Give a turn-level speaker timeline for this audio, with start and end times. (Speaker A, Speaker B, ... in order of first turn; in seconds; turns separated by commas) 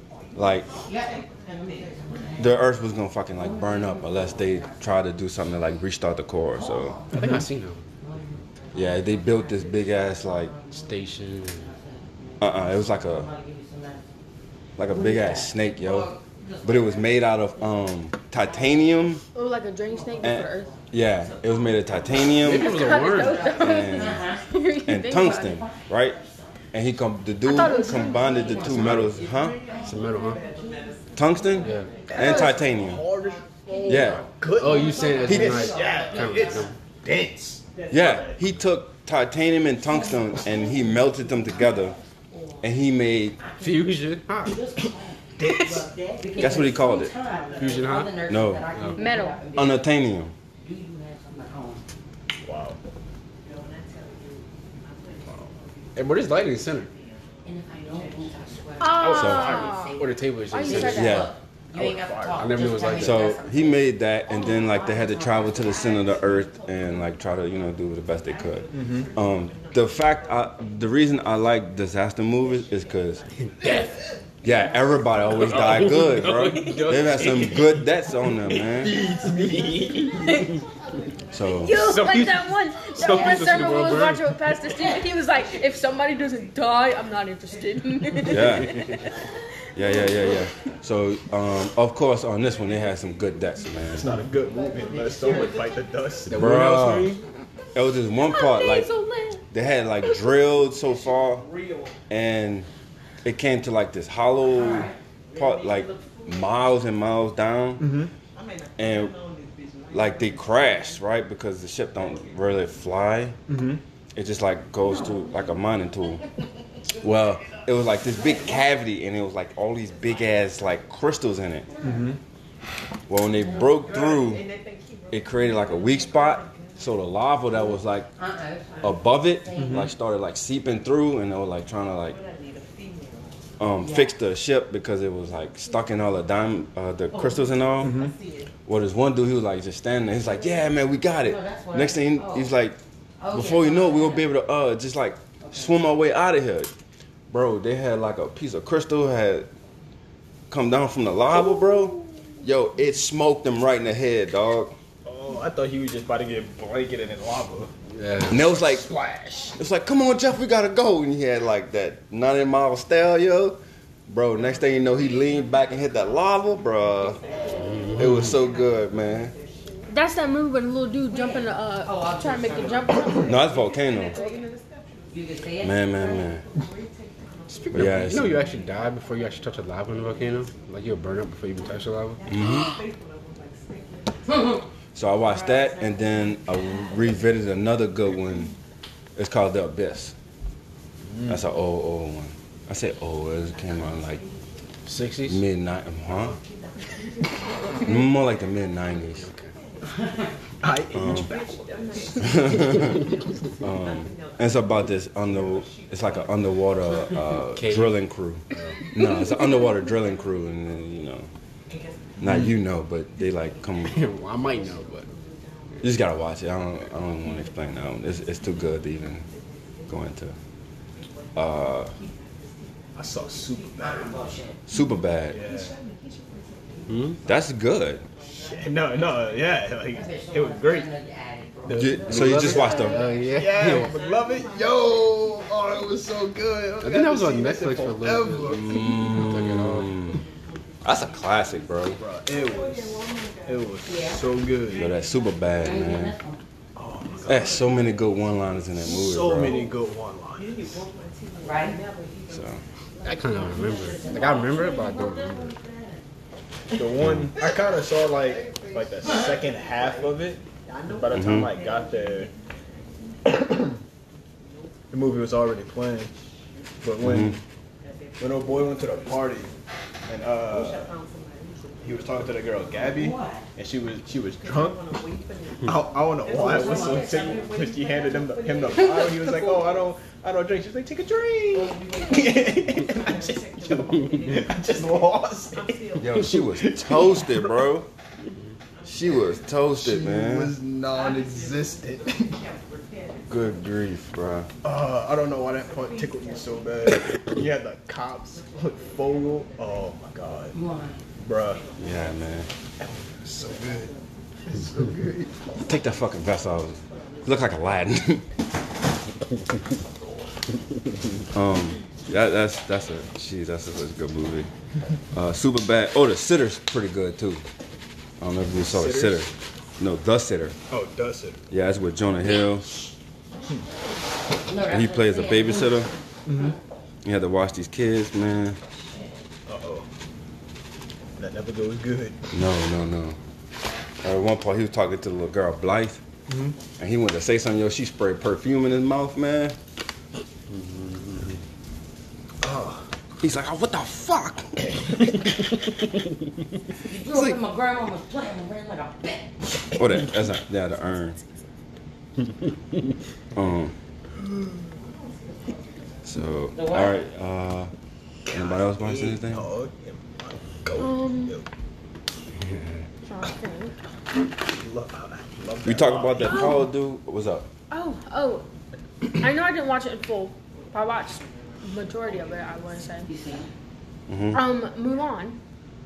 Speaker A: 0.3-0.8, Speaker B: 0.8-2.6, Speaker A: 2.4-7.0, Speaker B: 3.4-5.0, Speaker B: 6.5-7.1, Speaker C: 7.1-7.8, Speaker D: 7.1-7.4, Speaker B: 8.0-10.7, Speaker A: 8.7-10.5, Speaker C: 10.7-11.7, Speaker B: 11.4-14.2, Speaker A: 12.4-13.3, Speaker A: 14.8-16.1, Speaker B: 14.8-17.6, Speaker A: 16.6-19.2, Speaker B: 18.4-19.0, Speaker E: 19.3-20.7, Speaker B: 19.9-20.9, Speaker A: 20.2-22.9, Speaker B: 21.7-26.7, Speaker C: 22.4-23.5, Speaker E: 22.5-25.6, Speaker A: 23.5-24.3, Speaker A: 24.9-26.2, Speaker A: 26.7-29.6, Speaker E: 27.4-29.1, Speaker B: 27.6-32.4, Speaker C: 28.8-29.1, Speaker C: 29.8-30.4, Speaker A: 31.1-33.0, Speaker C: 31.6-31.9, Speaker D: 32.1-38.4, Speaker E: 32.2-32.5, Speaker B: 33.7-36.7, Speaker A: 33.9-34.2, Speaker C: 34.6-36.7, Speaker A: 37.9-42.0, Speaker B: 40.0-42.5, Speaker A: 42.6-43.4, Speaker B: 43.4-43.9, Speaker C: 43.6-44.6, Speaker B: 44.4-49.8, Speaker D: 45.4-45.9, Speaker E: 45.4-45.9, Speaker A: 46.4-47.1, Speaker C: 47.6-48.1, Speaker A: 48.3-48.7, Speaker E: 48.9-49.5, Speaker A: 49.5-50.3, Speaker B: 50.6-51.8, Speaker D: 52.4-52.8, Speaker C: 56.0-56.9, Speaker B: 57.4-67.1, Speaker E: 58.8-61.3, Speaker D: 59.0-59.7, Speaker A: 59.1-59.6, Speaker C: 60.0-61.1, Speaker A: 60.9-61.3, Speaker D: 61.7-62.7, Speaker C: 62.4-63.3, Speaker A: 63.0-73.3, Speaker D: 68.7-69.1, Speaker C: 73.6-74.0, Speaker A: 74.4-79.0, Speaker C: 75.3-77.6, Speaker D: 77.2-77.8, Speaker D: 78.7-80.4, Speaker E: 80.2-80.5, Speaker A: 81.3-81.8, Speaker E: 81.6-89.0, Speaker C: 81.7-84.3, Speaker B: 83.0-84.0, Speaker B: 84.6-84.9, Speaker A: 88.3-88.9, Speaker A: 89.7-94.1, Speaker D: 93.9-96.5, Speaker C: 96.3-97.2, Speaker A: 96.3-97.1, Speaker A: 97.7-98.9, Speaker E: 98.2-99.4, Speaker A: 99.5-101.5, Speaker A: 102.1-102.7, Speaker A: 103.2-108.0, Speaker B: 104.5-105.0, Speaker D: 107.8-108.1, Speaker A: 108.8-109.1, Speaker A: 109.9-113.4, Speaker D: 113.5-113.8, Speaker A: 114.1-116.2, Speaker A: 117.0-121.7, Speaker B: 121.7-122.1, Speaker D: 121.8-122.2, Speaker A: 123.1-124.4, Speaker A: 125.1-128.1, Speaker B: 128.2-129.8, Speaker A: 128.8-132.2, Speaker D: 129.6-129.9, Speaker A: 133.6-138.0, Speaker B: 133.8-134.1, Speaker D: 137.8-138.1, Speaker A: 138.7-142.8, Speaker B: 141.3-142.5, Speaker B: 143.2-144.3, Speaker A: 143.3-146.7, Speaker A: 147.3-149.5, Speaker A: 150.5-154.7, Speaker D: 155.0-157.7, Speaker C: 157.9-158.4, Speaker A: 158.3-158.9, Speaker D: 158.3-159.6, Speaker A: 159.6-167.2, Speaker C: 167.7-168.3, Speaker A: 167.9-169.3, Speaker E: 169.9-173.6, Speaker B: 171.1-173.3, Speaker A: 173.2-174.2, Speaker E: 174.1-174.5, Speaker B: 175.1-176.8, Speaker A: 175.6-176.4, Speaker C: 177.7-182.2, Speaker A: 177.7-178.4, Speaker A: 182.3-182.7, Speaker B: 182.4-182.8, Speaker B: 184.2-184.6, Speaker A: 184.9-188.5, Speaker A: 189.2-190.1, Speaker A: 191.3-194.2, Speaker C: 194.8-195.4, Speaker A: 195.2-196.4, Speaker A: 197.7-199.3, Speaker C: 199.2-199.5, Speaker D: 200.6-202.9, Speaker A: 200.9-201.3, Speaker A: 202.2-211.3, Speaker C: 207.5-207.9, Speaker C: 208.5-208.8, Speaker A: 212.2-214.1, Speaker C: 213.9-215.1, Speaker A: 215.8-219.3, Speaker A: 219.9-220.4, Speaker A: 221.3-221.9, Speaker D: 222.9-224.2, Speaker B: 223.8-224.6, Speaker A: 224.7-225.4, Speaker D: 225.3-225.8, Speaker C: 226.9-227.2, Speaker A: 227.2-228.0, Speaker D: 228.3-230.9, Speaker B: 229.9-233.0, Speaker D: 231.7-232.5, Speaker A: 231.7-233.1, Speaker C: 232.1-234.0, Speaker D: 233.3-238.8, Speaker C: 236.8-239.9, Speaker A: 238.5-240.2, Speaker A: 240.8-242.0, Speaker D: 242.0-244.9, Speaker B: 243.8-244.2, Speaker A: 244.7-246.1, Speaker B: 245.6-246.4, Speaker D: 246.8-247.6, Speaker A: 247.2-249.7, Speaker D: 248.8-250.9, Speaker B: 251.4-251.8, Speaker A: 252.3-252.6, Speaker C: 253.0-255.6, Speaker B: 253.6-254.8, Speaker D: 256.7-262.3, Speaker A: 257.0-257.3, Speaker B: 259.0-259.4, Speaker A: 261.1-261.5, Speaker D: 263.3-263.7, Speaker D: 264.9-266.1, Speaker D: 266.8-267.4, Speaker A: 267.0-267.4, Speaker D: 268.2-269.5, Speaker D: 270.1-270.9, Speaker D: 271.8-274.8, Speaker B: 272.8-273.4, Speaker D: 275.6-287.6, Speaker B: 276.3-277.2, Speaker E: 278.9-279.6, Speaker A: 285.9-287.9, Speaker A: 288.8-290.6, Speaker D: 289.8-292.4, Speaker A: 293.3-294.5, Speaker D: 294.6-300.6, Speaker B: 300.5-301.0, Speaker D: 301.2-301.6, Speaker A: 301.8-302.5, Speaker D: 302.8-303.9, Speaker D: 304.4-305.4, Speaker A: 305.6-308.3, Speaker A: 311.3-314.5, Speaker A: 315.1-317.4, Speaker A: 318.2-320.6, Speaker D: 318.5-319.2, Speaker D: 320.7-321.4, Speaker A: 321.5-322.7, Speaker B: 324.4-326.6, Speaker A: 324.7-325.9, Speaker D: 326.3-326.6, Speaker A: 327.0-328.6, Speaker D: 329.5-329.9, Speaker D: 331.2-332.2, Speaker A: 332.3-333.2, Speaker A: 334.0-336.0, Speaker D: 336.3-336.6, Speaker A: 336.8-339.6, Speaker C: 340.5-341.4, Speaker D: 342.4-342.9, Speaker A: 343.2-344.7, Speaker B: 346.9-349.3, Speaker A: 347.1-347.4, Speaker A: 349.8-351.2, Speaker A: 353.3-353.7, Speaker A: 356.0-357.7, Speaker B: 356.5-356.9, Speaker A: 358.3-359.5, Speaker D: 358.8-361.4, Speaker E: 360.7-361.4, Speaker C: 362.4-362.8, Speaker E: 363.1-363.7, Speaker D: 364.4-366.5, Speaker A: 365.6-367.5, Speaker E: 366.3-366.6, Speaker E: 367.7-368.4, Speaker E: 369.2-373.1, Speaker B: 373.1-373.5, Speaker A: 374.1-374.4, Speaker E: 374.3-375.4